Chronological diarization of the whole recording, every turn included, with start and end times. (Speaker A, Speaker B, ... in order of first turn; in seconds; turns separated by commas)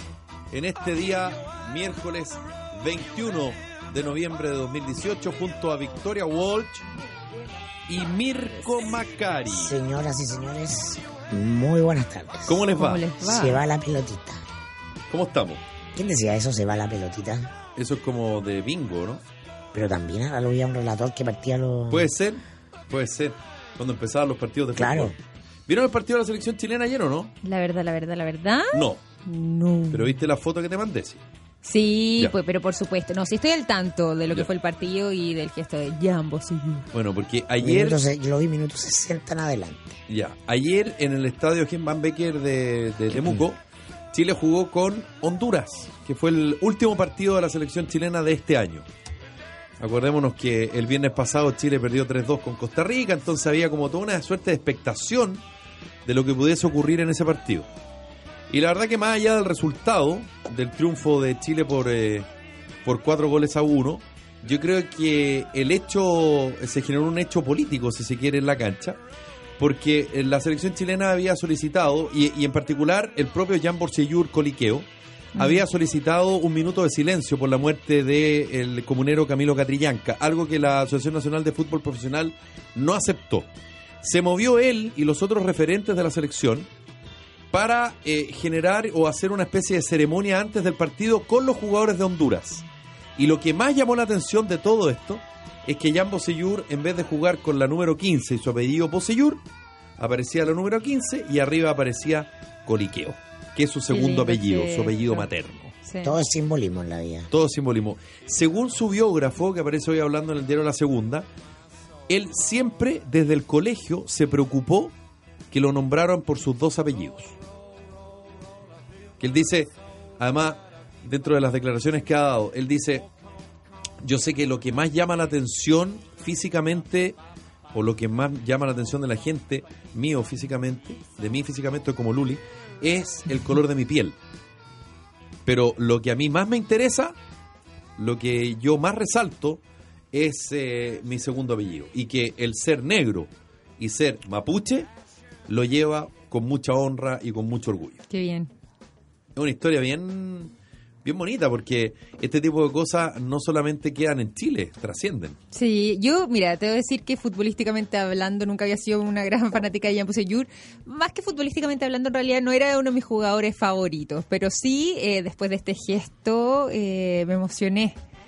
Speaker A: 0.5-6.9, Speaker A: 7.9-9.8, Speaker B: 9.5-12.6, Speaker A: 12.5-13.1, Speaker C: 12.8-13.6, Speaker B: 13.2-14.4, Speaker A: 15.1-15.6, Speaker B: 15.9-17.5, Speaker A: 17.8-19.2, Speaker B: 19.7-22.1, Speaker A: 21.9-25.2, Speaker B: 24.8-25.1, Speaker A: 25.7-27.3, Speaker C: 27.4-30.2, Speaker A: 28.7-29.0, Speaker A: 29.9-31.2, Speaker C: 31.6-36.9, Speaker A: 36.9-38.0, Speaker B: 37.6-40.0, Speaker A: 40.1-43.6, Speaker A: 44.1-48.9, Speaker A: 49.8-55.4, Speaker A: 56.1-57.7, Speaker A: 58.5-62.3, Speaker A: 62.9-69.0, Speaker A: 69.6-74.9, Speaker C: 75.4-75.6, Speaker A: 75.4-83.5, Speaker A: 84.0-86.7, Speaker A: 87.5-92.6, Speaker A: 93.2-99.4, Speaker A: 100.0-105.8, Speaker C: 103.9-105.2, Speaker C: 105.9-106.2, Speaker B: 106.0-107.3, Speaker A: 107.3-111.3, Speaker A: 112.1-114.9, Speaker A: 115.5-117.3, Speaker A: 119.2-123.1, Speaker A: 124.0-127.2, Speaker A: 127.7-134.2, Speaker A: 135.5-137.2, Speaker A: 138.0-139.6, Speaker A: 140.1-143.3, Speaker A: 143.8-144.9, Speaker A: 145.5-148.0, Speaker C: 148.1-148.5, Speaker A: 149.4-150.5, Speaker A: 151.0-155.4, Speaker C: 155.5-168.0